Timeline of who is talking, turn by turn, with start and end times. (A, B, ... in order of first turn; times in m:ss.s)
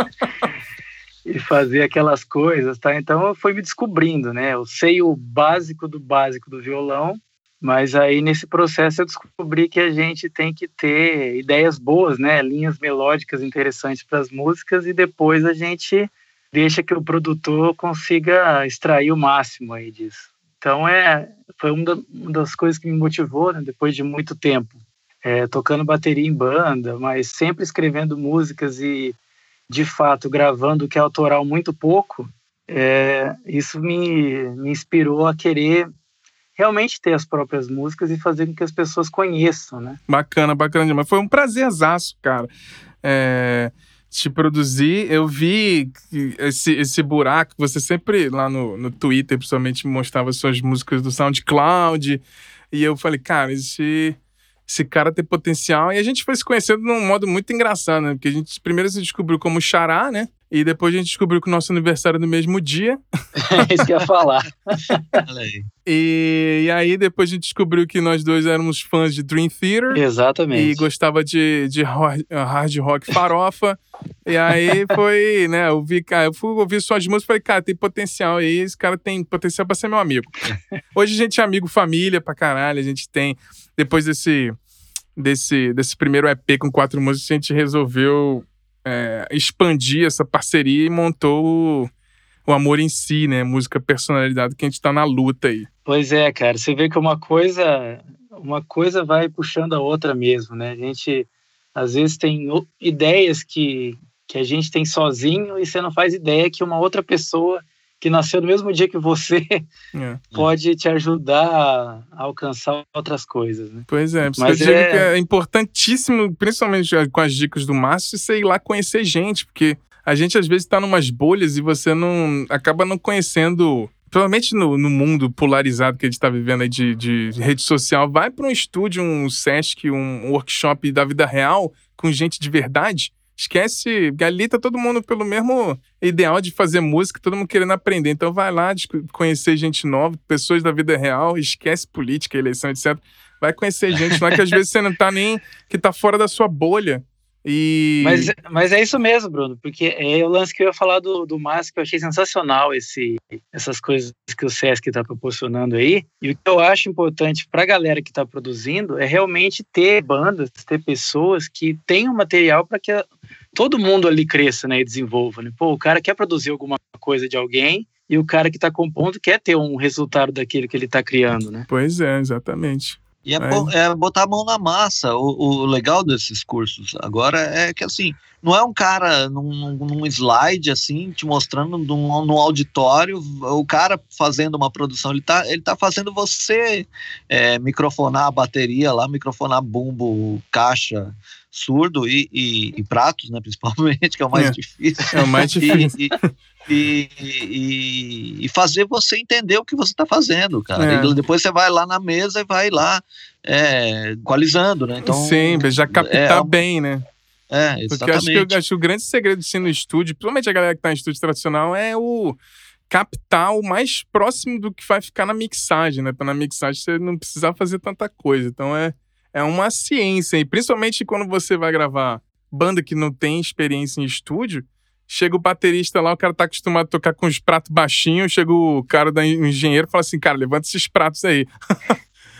0:01.2-0:29.2 A
0:29.7-0:35.9 A
0:36.6-0:40.0 A
0:40.1-0:42.5 B
0:43.0-1:03.0 B
1:03.4-1:05.2 A
1:05.2-1:05.7 C
1:05.8-1:10.0 B
1:09.9-1:10.8 A
1:10.5-1:24.5 B
1:25.2-1:31.9 B
1:32.4-1:35.7 B
1:35.8-1:49.7 A
1:49.9-1:50.2 B
1:50.3-1:53.8 A
1:53.9-2:28.3 B
1:54.4-1:55.1 A
2:28.0-2:51.7 A
2:51.7-2:53.7 B
2:53.2-3:16.1 C
3:15.1-3:16.0 B
3:16.7-3:26.5 C
3:20.8-3:21.2 B
3:25.0-3:27.0 B
3:27.5-3:28.5 C
3:27.9-3:32.4 B
3:32.9-3:51.9 B